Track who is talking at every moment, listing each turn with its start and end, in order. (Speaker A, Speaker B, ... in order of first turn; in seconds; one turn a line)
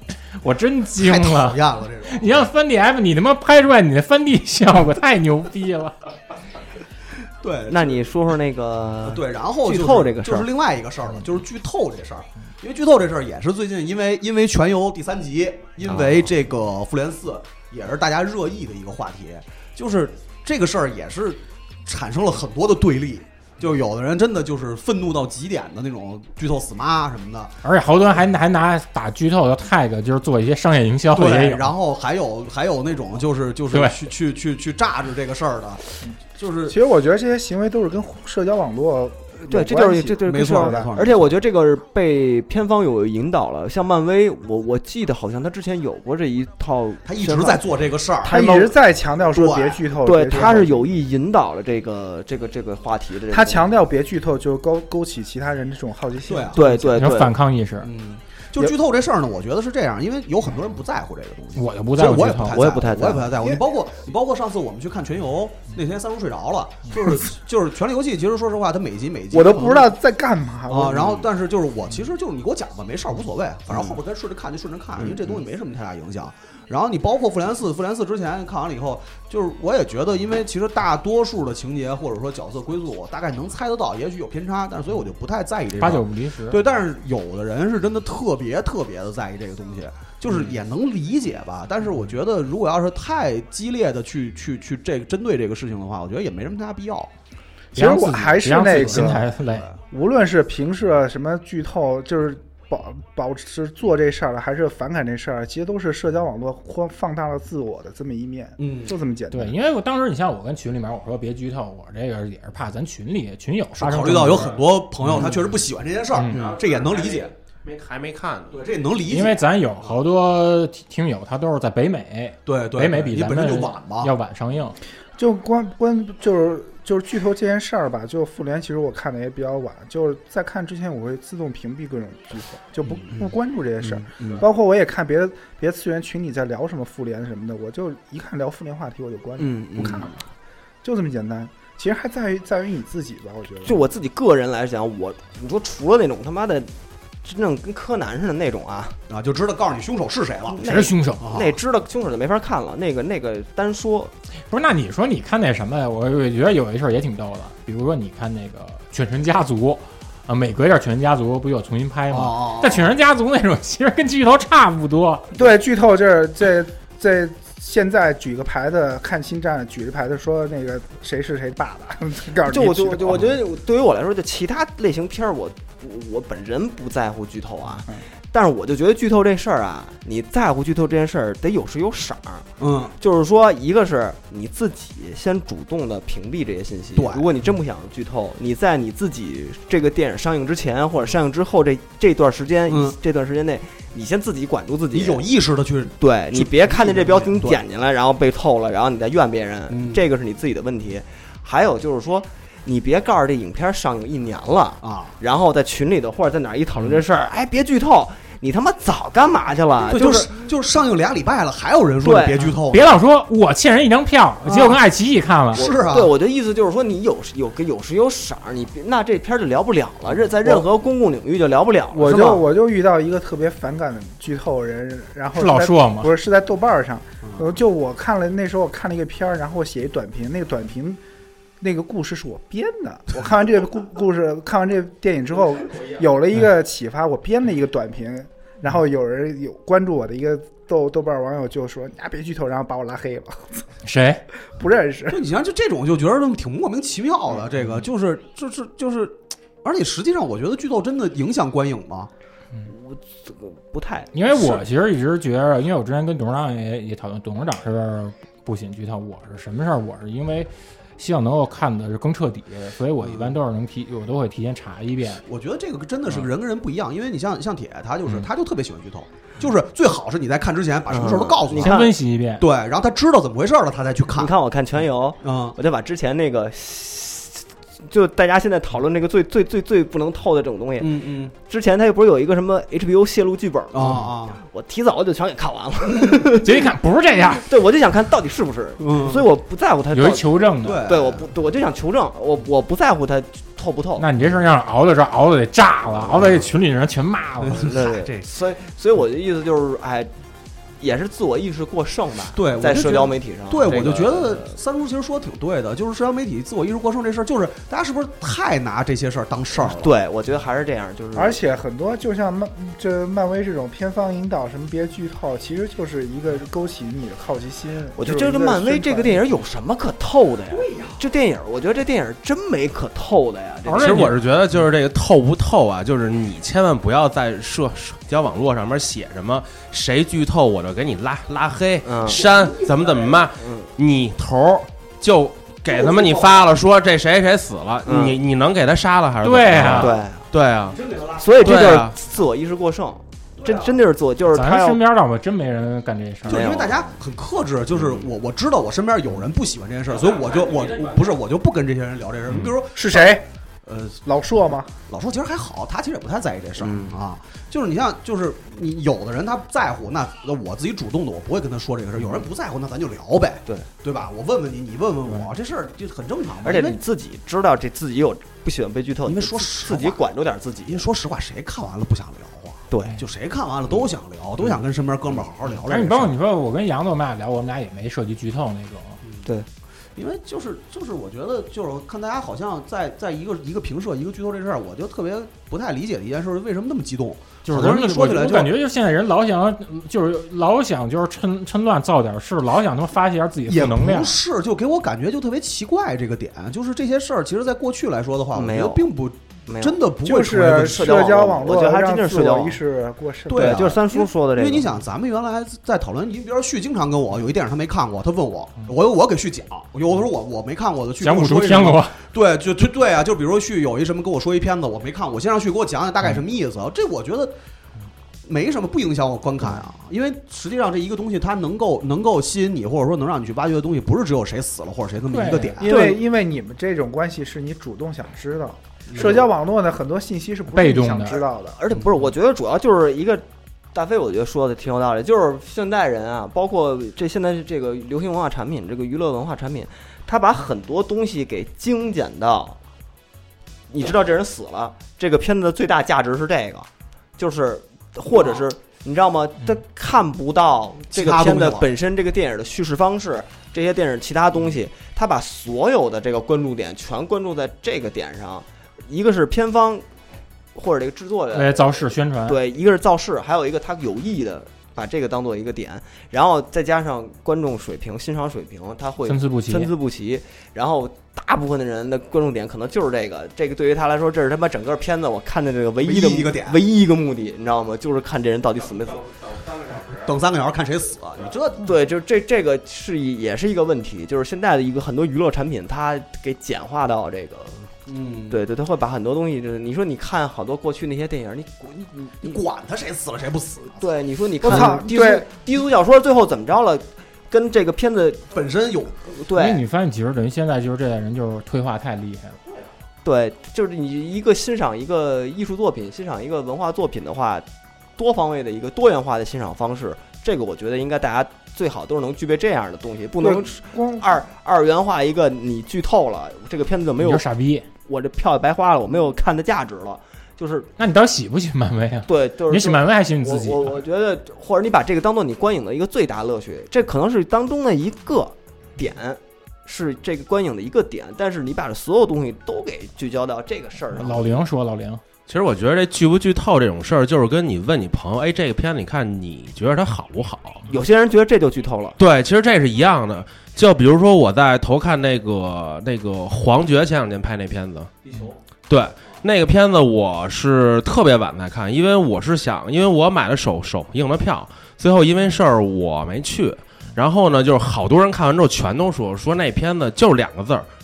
Speaker A: 0.4-5.9
Speaker B: 1.0-2.4
Speaker B: 7.4-8.0
Speaker C: 7.7-10.5
Speaker B: 9.0-27.6
Speaker C: 15.8-16.2
Speaker A: 27.6-31.7
Speaker B: 31.1-35.8
Speaker A: 33.7-34.0
Speaker B: 36.3-36.8
Speaker D: 36.7-40.9
Speaker C: 39.4-47.6
Speaker B: 40.2-41.3
Speaker B: 47.0-48.5
Speaker C: 48.2-48.8
Speaker D: 48.3-50.9
Speaker B: 49.3-49.8
Speaker C: 50.0-53.7
Speaker D: 53.3-57.0
Speaker B: 56.3-56.6
Speaker C: 56.5-57.3
Speaker A: 57.0-57.9
Speaker B: 57.8-69.9
Speaker A: 61.5-62.6
Speaker C: 62.5-63.4
Speaker D: 69.3-71.2
Speaker B: 70.7-97.1
Speaker C: 75.0-75.4
Speaker A: 85.7-86.6
Speaker D: 97.7-99.3
Speaker A: 97.8-99.7
Speaker B: 98.6-99.2
Speaker D: 99.9-109.5
Speaker B: 108.6-109.0
Speaker A: 109.3-115.5
Speaker B: 113.7-117.3
Speaker A: 116.1-116.4
Speaker E: 116.3-118.6
Speaker B: 118.5-120.0
Speaker A: 119.1-124.8
Speaker B: 122.5-124.1
Speaker D: 125.2-140.1
Speaker B: 132.9-133.3
Speaker B: 134.1-134.4
Speaker C: 139.4-140.1
Speaker B: 139.8-140.1
Speaker D: 140.8-143.8
Speaker C: 143.6-146.7
Speaker C: 147.2-149.0
Speaker B: 149.1-151.6
Speaker C: 150.5-154.1
Speaker A: 150.6-151.2
Speaker A: 154.5-165.3
Speaker B: 162.1-162.9
Speaker D: 165.3-173.3
Speaker C: 172.4-195.2
Speaker B: 182.6-182.9
Speaker B: 186.9-187.3
Speaker B: 192.7-192.9
Speaker B: 194.9-197.6
Speaker C: 196.0-210.4
Speaker B: 199.7-200.0
Speaker B: 204.8-205.2
Speaker B: 209.8-212.9
Speaker C: 212.0-212.5
Speaker A: 212.7-215.7
Speaker B: 214.4-214.8
Speaker B: 215.5-216.1
Speaker C: 215.5-222.4
Speaker D: 221.9-231.0
Speaker A: 225.3-226.1
Speaker B: 227.2-227.6
Speaker D: 231.6-243.6
Speaker A: 243.8-244.2
Speaker D: 244.5-245.2
Speaker B: 245.1-252.1
Speaker C: 252.7-254.1
Speaker A: 254.1-265.2
Speaker B: 263.0-263.3
Speaker B: 265.2-274.3
Speaker C: 270.9-271.9
Speaker A: 271.6-272.4
Speaker C: 274.1-286.7
Speaker B: 275.2-275.6
Speaker B: 280.8-281.3
Speaker B: 283.7-284.4
Speaker A: 286.3-287.5
Speaker C: 287.4-294.0
Speaker B: 288.8-289.2
Speaker A: 289.9-290.8
Speaker B: 290.6-291.3
Speaker A: 294.0-297.7
Speaker B: 297.4-298.2
Speaker C: 297.5-300.1
Speaker C: 300.8-304.5
Speaker B: 302.3-309.9
Speaker C: 309.6-311.4
Speaker D: 311.1-319.2
Speaker C: 317.9-324.1
Speaker B: 320.5-321.0
Speaker A: 323.6-324.1
Speaker E: 323.8-340.8
Speaker C: 331.8-332.2
Speaker B: 332.2-333.2
Speaker C: 333.4-333.7
Speaker B: 335.7-336.3
Speaker C: 337.8-338.2
Speaker A: 339.2-339.9
Speaker C: 339.8-340.2
Speaker B: 340.7-341.4
Speaker C: 341.2-344.8
Speaker E: 341.4-341.9
Speaker B: 343.4-343.8
Speaker A: 344.3-346.4
Speaker B: 346.2-354.0
Speaker C: 346.3-347.0
Speaker C: 347.8-348.1
Speaker D: 352.6-353.2
Speaker D: 354.0-354.7
Speaker B: 354.9-366.8
Speaker C: 356.6-357.0
Speaker C: 366.4-370.9
Speaker B: 369.1-370.0
Speaker B: 370.7-376.2
Speaker C: 372.7-373.0
Speaker A: 375.6-379.0
Speaker B: 379.9-388.5
Speaker A: 387.5-394.2
Speaker B: 393.5-401.1
Speaker C: 398.3-398.9
Speaker C: 399.5-399.8
Speaker D: 400.0-403.8
Speaker C: 400.5-402.6
Speaker B: 403.3-417.3
Speaker C: 403.3-404.7
Speaker A: 411.0-412.0
Speaker B: 418.2-425.7
Speaker A: 425.1-425.6
Speaker D: 425.6-431.6
Speaker C: 425.6-426.0
Speaker B: 428.9-429.2
Speaker C: 428.9-429.2
Speaker A: 430.5-431.2
Speaker C: 431.5-442.6
Speaker C: 443.7-459.8
Speaker B: 450.9-451.7
Speaker C: 460.5-461.6
Speaker A: 461.3-462.4
Speaker C: 462.2-479.4
Speaker A: 469.0-469.7
Speaker B: 475.8-476.6
Speaker B: 479.8-481.7
Speaker C: 481.6-487.7
Speaker B: 487.9-488.4
Speaker C: 488.3-492.4
Speaker B: 492.2-493.9
Speaker C: 493.8-498.2
Speaker D: 494.4-495.2
Speaker B: 498.3-499.1
Speaker C: 499.1-499.6
Speaker A: 499.3-502.4
Speaker C: 503.0-507.4
Speaker C: 508.0-517.2
Speaker D: 513.2-514.0
Speaker A: 517.0-517.7
Speaker C: 517.9-520.7
Speaker A: 520.8-523.8
Speaker C: 522.1-534.3
Speaker A: 533.9-535.0
Speaker E: 535.3-540.6
Speaker C: 540.7-542.0
Speaker E: 542.0-547.9
Speaker E: 548.7-560.7